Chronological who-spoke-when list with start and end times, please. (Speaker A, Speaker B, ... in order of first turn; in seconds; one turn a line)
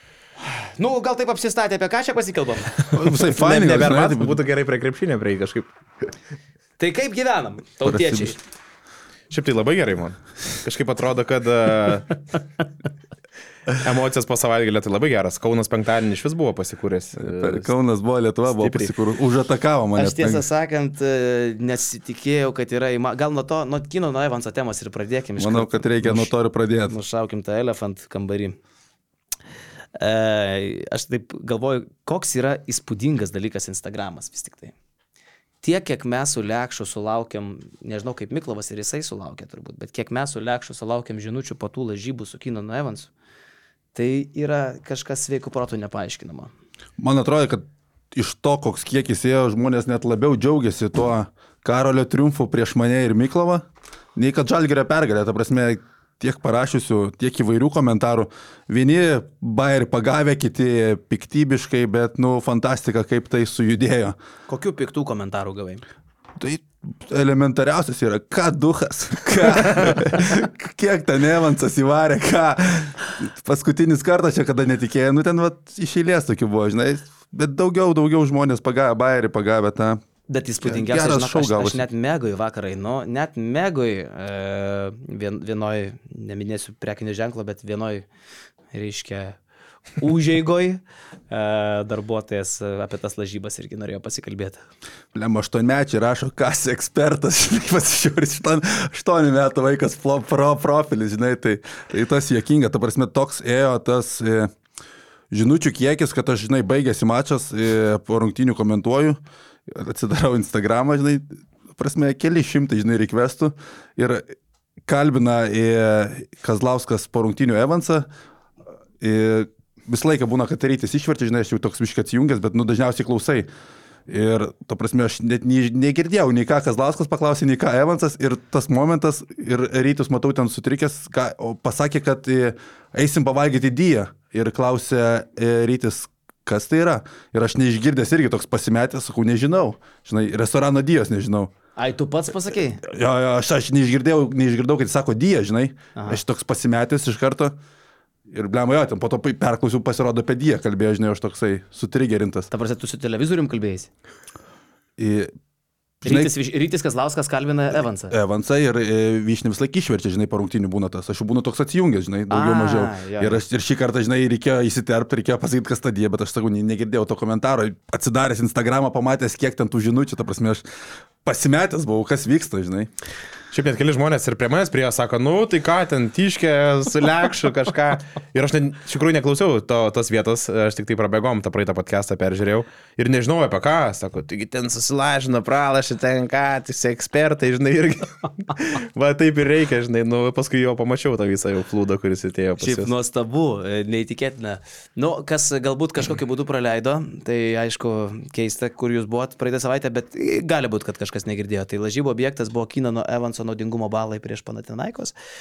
Speaker A: 0.5-3.0
Speaker B: 2.9-4.4
Speaker C: 3.3-6.1
Speaker A: 6.8-8.4
Speaker B: 7.8-8.3
Speaker C: 9.3-12.2
Speaker C: 13.7-17.7
Speaker B: 17.2-20.4
Speaker C: 18.5-18.9
Speaker A: 19.9-26.3
Speaker B: 25.4-26.9
Speaker A: 26.9-28.6
Speaker A: 30.0-34.7
Speaker A: 35.6-43.1
Speaker A: 43.9-46.5
Speaker B: 47.0-64.2
Speaker A: 64.5-65.8
Speaker B: 66.4-80.0
Speaker A: 80.3-88.0
Speaker B: 80.6-81.8
Speaker A: 88.7-89.4
Speaker A: 90.0-94.6
Speaker B: 95.1-104.5
Speaker B: 105.3-114.3
Speaker B: 114.8-118.1
Speaker B: 119.0-123.5
Speaker B: 124.1-141.5
Speaker A: 141.8-142.8
Speaker B: 142.8-147.6
Speaker A: 145.9-146.2
Speaker B: 148.3-152.5
Speaker A: 152.5-153.9
Speaker B: 155.0-155.3
Speaker B: 156.0-156.3
Speaker A: 156.0-158.1
Speaker B: 158.1-170.6
Speaker A: 162.3-163.4
Speaker B: 171.2-172.9
Speaker C: 173.5-192.9
Speaker A: 192.6-205.1